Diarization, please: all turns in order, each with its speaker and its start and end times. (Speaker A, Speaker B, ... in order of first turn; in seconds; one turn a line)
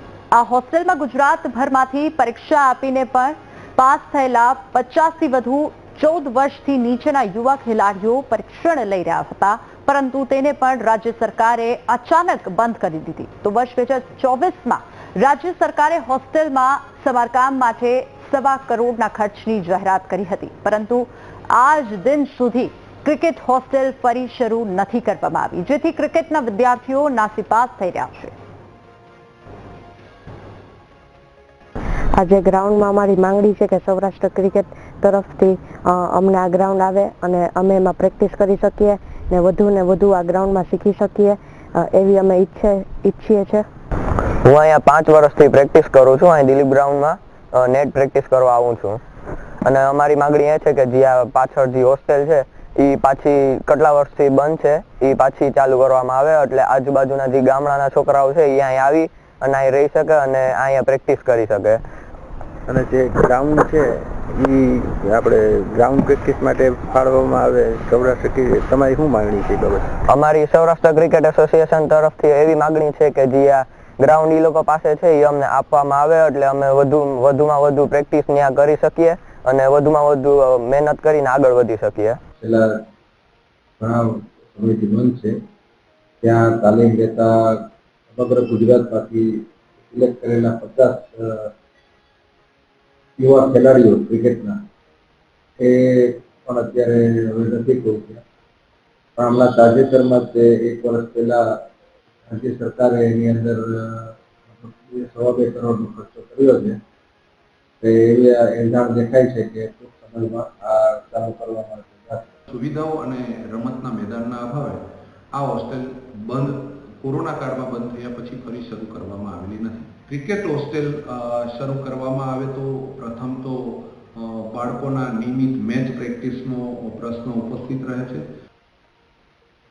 Speaker A: 0.3-28.3
Speaker B: 32.2-43.7
Speaker C: 44.4-49.0
Speaker C: 49.6-61.8
Speaker D: 62.7-69.9
Speaker C: 70.1-82.2
Speaker E: 82.4-82.8
Speaker E: 83.8-85.4
Speaker E: 86.2-91.5
Speaker E: 93.2-94.6
Speaker E: 95.6-98.2
Speaker E: 99.2-101.7
Speaker E: 102.3-106.8
Speaker E: 107.8-112.3
Speaker F: 112.5-128.2